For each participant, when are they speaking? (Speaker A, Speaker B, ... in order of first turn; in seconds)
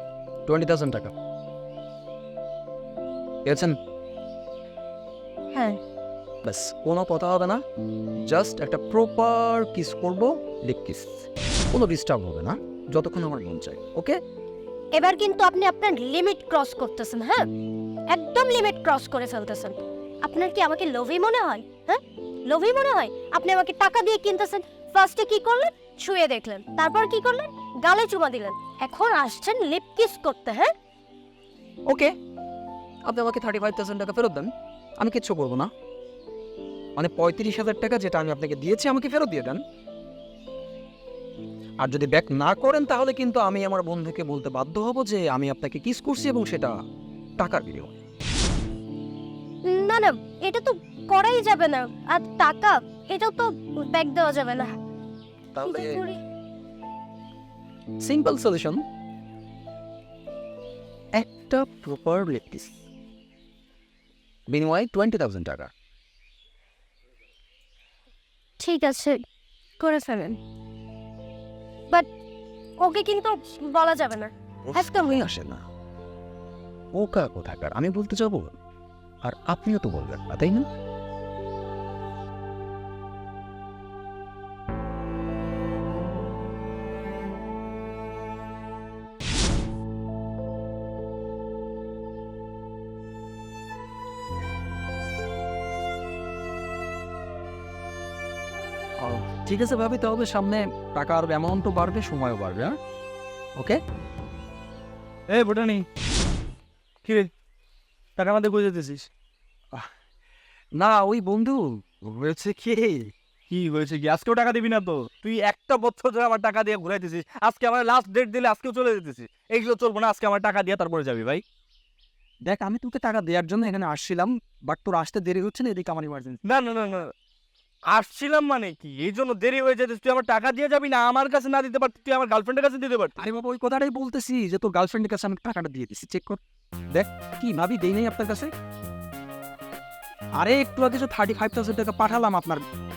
Speaker A: 0.5-1.1, 3.5-3.8, 6.4-7.6, 8.2-14.2, 31.9-32.1, 33.1-35.7, 37.0-39.6, 41.8-46.7, 47.4-48.0, 55.5-56.0, 58.0-58.8, 61.1-62.8, 64.5-65.7, 74.7-75.6, 76.9-78.6, 79.2-80.7, 99.0-102.8, 110.7-113.1, 122.5-126.4, 133.2-138.5, 140.4-142.7
Speaker B: 5.5-5.8, 14.9-17.5, 18.1-30.7, 49.6-54.7, 55.6-56.2, 68.6-69.2, 69.8-70.4, 72.8-75.2
Speaker C: 105.3-105.9, 107.0-107.3, 108.2-109.1, 113.5-121.4, 126.5-127.1, 127.9-133.2